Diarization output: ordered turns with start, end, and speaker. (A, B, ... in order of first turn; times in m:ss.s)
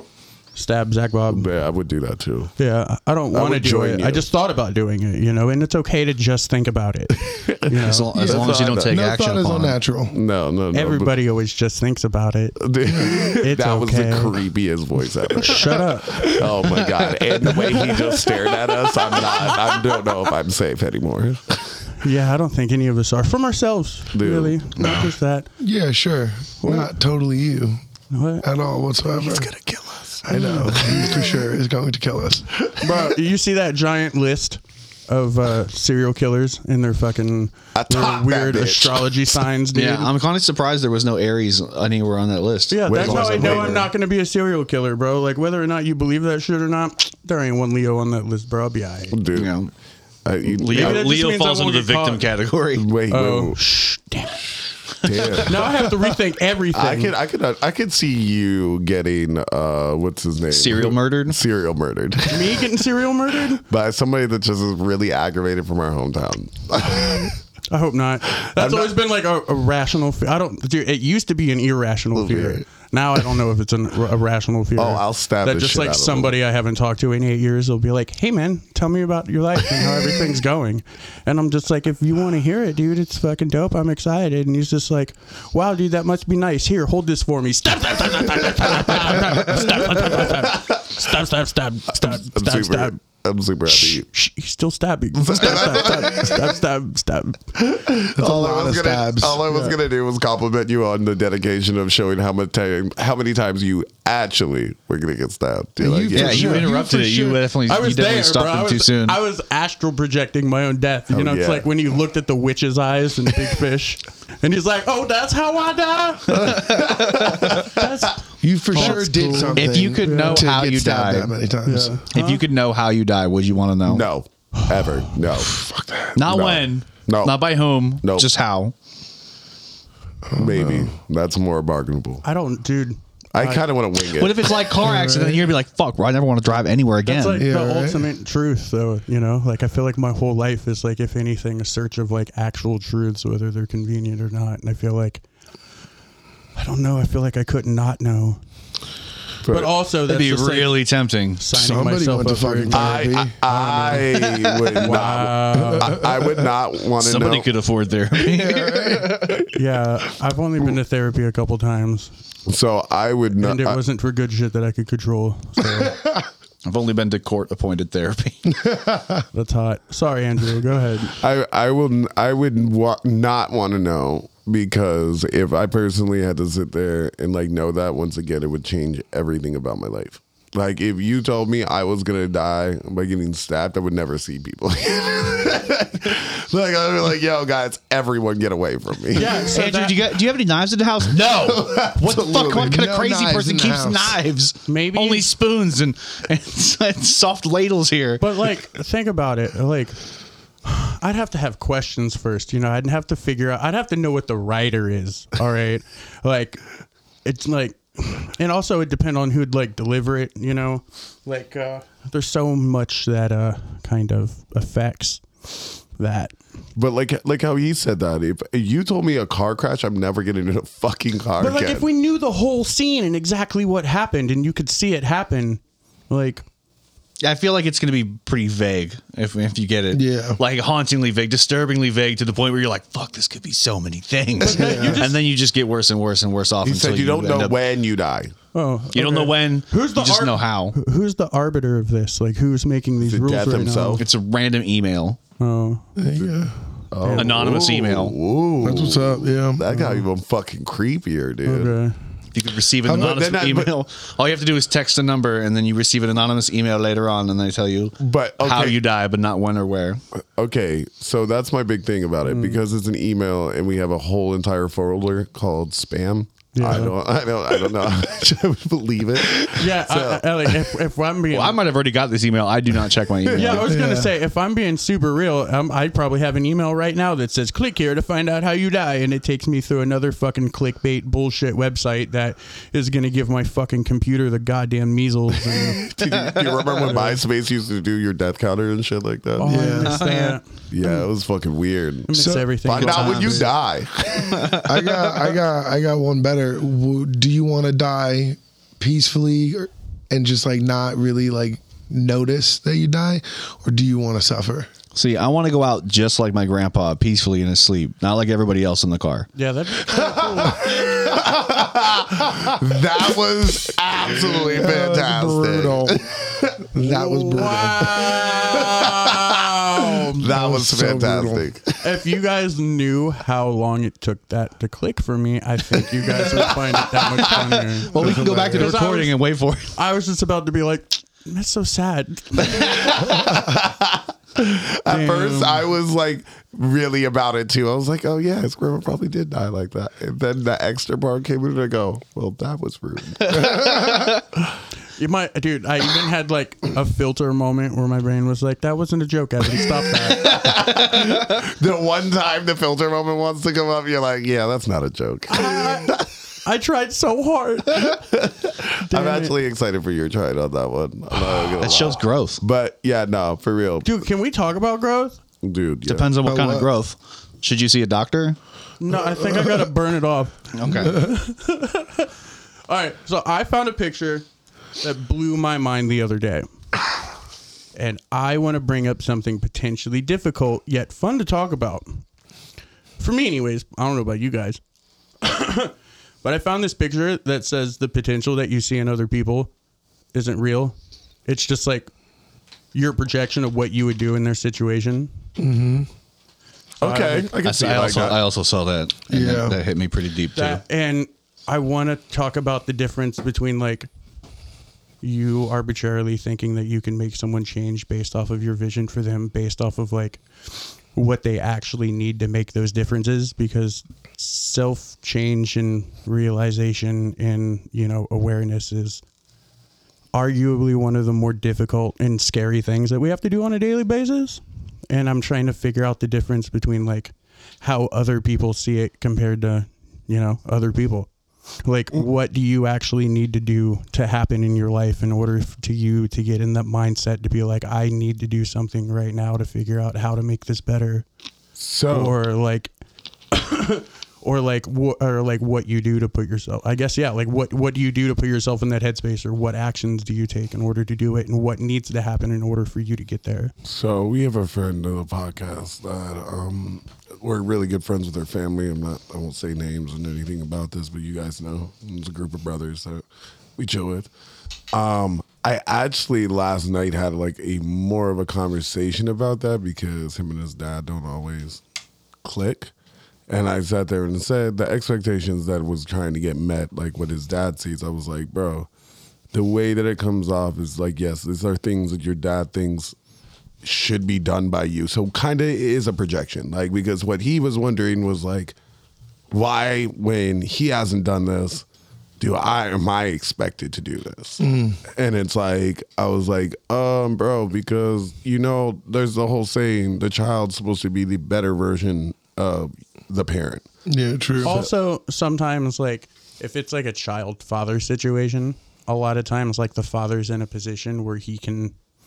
0:00.6-0:01.5 A
0:01.3-0:02.6 B
0:02.6-0:08.1 A
0:03.3-0:04.2 B
0:07.3-0:09.0 B
0:07.8-0:09.8 C
0:08.2-0:10.2 D
0:10.1-0:11.1 B
0:10.7-0:14.4 A
0:12.6-0:21.8 B
0:12.9-0:13.2 D
0:15.4-0:16.4 A
0:17.6-0:17.9 D
0:22.0-0:25.5 A
0:24.1-0:25.1 B
0:25.6-0:27.8 D
0:28.1-0:28.5 A
0:28.4-0:29.5 D
0:29.2-0:31.4 B
0:30.2-0:32.6 D
0:32.8-0:40.1 A
0:37.7-0:39.4 B
0:39.7-0:43.9 C
0:42.7-0:49.2 A
0:42.9-0:43.8 B
0:49.1-0:49.5 B
0:49.3-0:49.7 C
0:50.2-0:51.2 B
0:50.5-0:52.9 C
0:50.7-0:52.3 A
0:52.7-0:53.6 B
0:53.1-0:54.5 A
0:55.0-0:55.8 B
0:55.4-0:57.1 A
0:56.7-1:02.6 B
1:00.5-1:01.4 C
1:02.3-1:03.6 A
1:03.6-1:07.4 B
1:07.7-1:33.0 A
1:08.4-1:08.9 B
1:12.2-1:12.6 B
1:14.8-1:16.3 B
1:29.4-1:31.1 B
1:31.9-1:34.1 B
1:33.7-1:37.5 A
1:35.2-1:36.5 B
1:37.6-1:46.7 B
1:38.2-1:39.4 D
1:39.5-1:39.8 A
1:45.8-1:47.4 D
1:46.1-1:49.2 C
1:47.7-2:00.5 A
1:51.1-1:51.7 B
1:56.4-1:57.3 C
1:56.5-1:57.8 B
1:58.4-2:02.0 D
1:58.8-1:59.0 C
1:59.6-2:01.3 C
2:01.7-2:02.4 A
2:02.1-2:04.0 C
2:03.9-2:05.6 B
2:04.6-2:05.1 A
2:05.4-2:06.2 D
2:06.2-2:08.7 C
2:06.2-2:08.3 B
2:10.3-2:10.9 D
2:10.3-2:12.2 B
2:12.2-2:13.6 A
2:13.3-2:14.6 B
2:14.2-2:17.4 C
2:14.8-2:15.5 D
2:17.0-2:25.2 A
2:17.4-2:18.1 D
2:26.6-2:28.4 A
2:29.4-2:29.7 B
2:29.5-2:30.8 A
2:30.1-2:31.4 C
2:31.4-2:36.0 A
2:31.5-2:33.4 D
2:32.7-2:37.5 B
2:35.8-2:36.4 D
2:37.0-2:39.5 C
2:38.2-2:39.4 D
2:39.5-2:42.1 A
2:42.5-2:43.8 B
2:43.4-2:46.0 A
2:45.6-2:46.2 D
2:46.6-2:48.6 C
2:48.6-2:49.2 D
2:49.3-2:51.2 A
2:51.2-3:09.5 B
3:09.1-3:10.1 A
3:09.2-3:18.2 C
3:11.1-3:12.8 B
3:12.5-3:14.2 D
3:14.7-3:15.3 A
3:18.2-3:20.0 A
3:20.6-3:26.6 A
3:27.2-3:36.4 A
3:36.8-3:41.8 B
3:41.4-3:46.4 A
3:47.2-3:57.6 C
3:49.9-3:50.4 D
3:54.4-3:55.2 A
3:54.5-3:55.0 D
3:56.6-3:58.3 B
3:58.5-4:04.1 A
3:58.9-4:00.8 C
4:03.0-4:04.1 B
4:04.0-4:05.2 C
4:05.4-4:05.9 A
4:06.0-4:06.6 D
4:06.9-4:11.8 B
4:07.0-4:07.6 A
4:07.2-4:08.2 C
4:08.6-4:09.6 D
4:09.7-4:10.0 A
4:11.5-4:12.0 A
4:12.3-4:20.0 C
4:12.8-4:13.7 B
4:18.0-4:18.8 B
4:20.4-4:30.7 B
4:22.3-4:22.6 A
4:26.6-4:26.9 A
4:29.5-4:31.6 A
4:31.3-4:33.7 C
4:33.2-4:33.6 B
4:33.3-4:45.8 A
4:33.7-4:34.1 D
4:45.8-4:49.8 B
4:49.4-4:50.4 A
4:49.5-4:50.1 D
4:49.9-4:50.4 C
4:50.7-4:54.6 B
4:52.1-4:53.4 A
4:52.1-4:52.5 D
4:52.8-4:53.5 C
4:53.2-4:53.5 D
4:54.2-4:55.2 C
4:54.6-5:04.7 D
5:04.9-5:09.3 C
5:09.4-5:10.9 A
5:10.5-5:21.8 B
5:14.2-5:16.0 D
5:16.6-5:18.2 D
5:17.2-5:20.2 A
5:20.2-5:21.5 D
5:21.8-5:29.2 A
5:26.2-5:27.4 B
5:27.8-5:29.8 C
5:27.9-5:28.8 D
5:29.7-5:33.0 A
5:32.4-5:44.5 B
5:34.9-5:35.7 A
5:45.0-5:50.5 A
5:50.1-5:56.1 B
5:55.3-5:58.0 A
5:57.8-6:03.9 B
5:58.8-5:59.4 A
6:01.5-6:02.4 C
6:03.8-6:05.2 A
6:05.4-6:06.1 B
6:05.8-6:08.4 C
6:06.2-6:06.7 D
6:08.8-6:12.1 A
6:10.5-6:11.0 C
6:12.7-6:14.3 A
6:14.8-6:16.5 A
6:17.8-6:22.0 A
6:23.0-6:24.6 A
6:25.2-6:29.5 A
6:30.1-6:30.8 A
6:31.3-6:31.9 A
6:32.7-6:35.1 A
6:35.4-6:35.9 D
6:36.8-6:38.2 B
6:36.8-6:37.3 A
6:37.4-6:40.6 C
6:39.1-6:39.6 D
6:40.3-6:43.9 A
6:45.0-6:50.2 A
6:50.9-6:59.0 A
7:00.1-7:11.1 A
7:11.6-7:21.0 A
7:21.6-7:22.2 B
7:21.9-7:22.7 A
7:23.3-7:33.5 A
7:33.6-7:43.0 B
7:43.6-7:44.1 B
7:44.7-7:51.6 B
7:52.2-7:52.7 B
7:53.3-7:58.7 B
7:59.3-8:03.0 B
8:03.6-8:08.6 B
8:09.3-8:11.6 B
8:12.2-8:23.6 B
8:14.4-8:14.8 D
8:23.9-8:24.7 D
8:24.4-8:31.8 A